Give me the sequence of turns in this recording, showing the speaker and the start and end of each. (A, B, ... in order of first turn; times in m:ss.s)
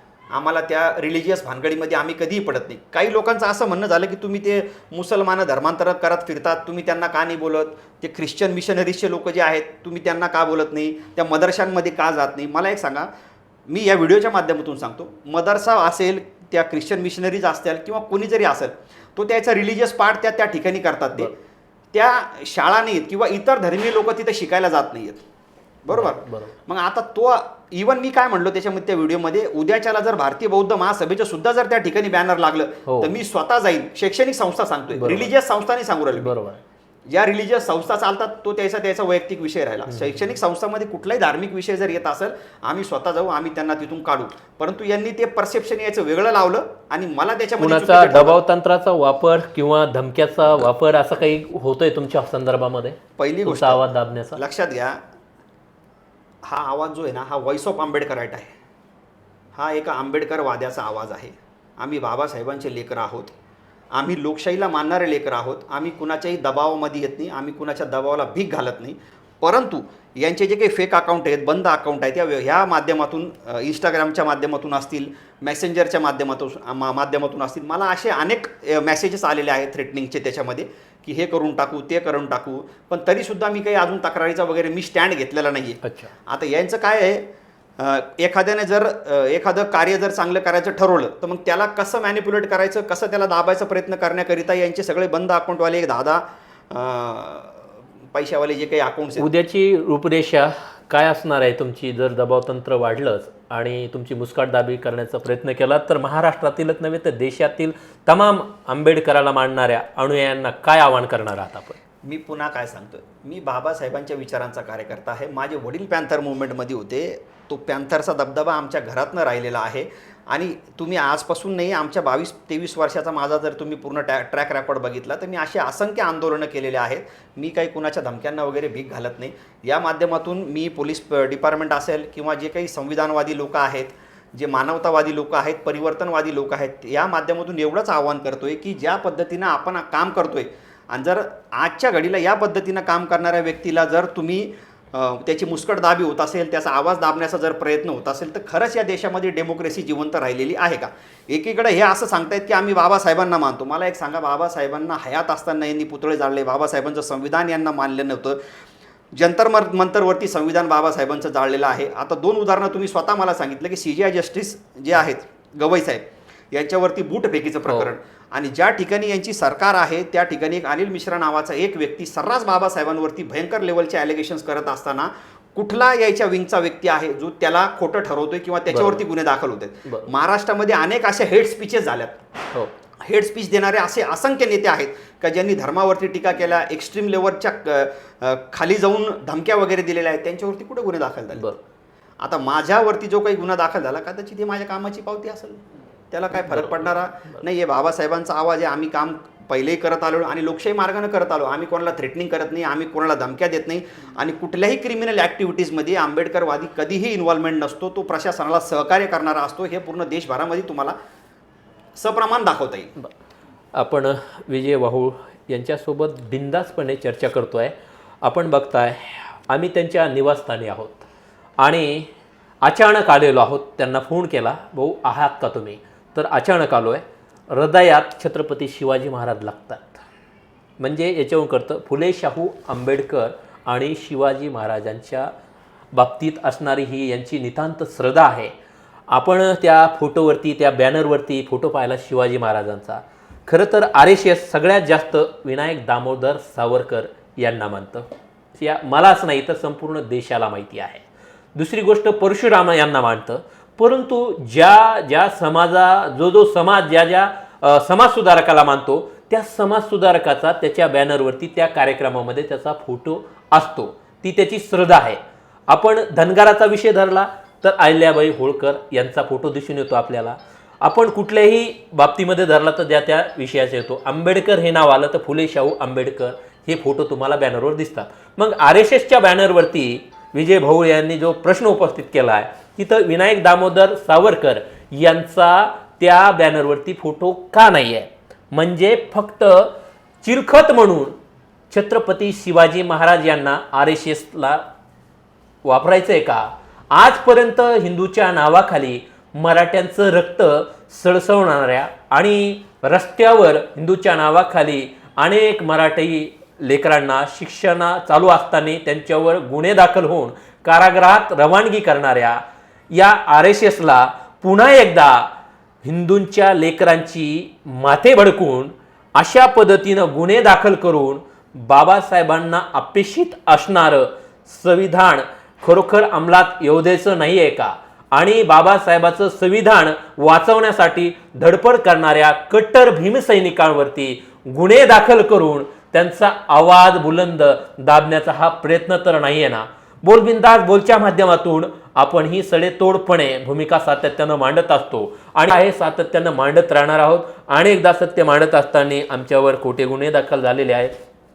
0:00.3-0:13.1 A
0:13.7-0:21.3 A
0:21.9-0:25.2 A
0:25.8-0:36.3 A
0:25.9-0:26.5 B
0:32.9-0:33.1 B
0:34.9-0:35.3 B
0:36.2-0:36.6 B
0:37.1-0:48.4 A
0:39.9-0:40.2 B
0:47.6-0:54.4 B
0:53.2-0:55.0 A
0:56.4-0:58.5 A
0:59.6-1:03.3 A
1:04.0-1:37.6 A
1:25.8-1:26.1 B
1:38.1-1:39.3 A
1:39.2-1:51.8 B
1:52.0-2:38.4 A
2:39.2-3:02.2 A
2:58.7-2:59.0 B
3:03.0-3:11.5 A
3:12.2-3:30.9 A
3:16.3-3:17.4 B
3:32.0-3:32.9 A
3:33.8-3:41.1 B
3:41.6-3:42.1 B
3:42.6-3:50.0 B
3:50.8-3:55.3 B
3:55.9-3:58.5 B
3:59.1-4:49.7 B
4:50.2-4:51.2 B
4:51.7-4:54.6 B
4:55.6-5:15.3 B
5:15.8-5:50.9 B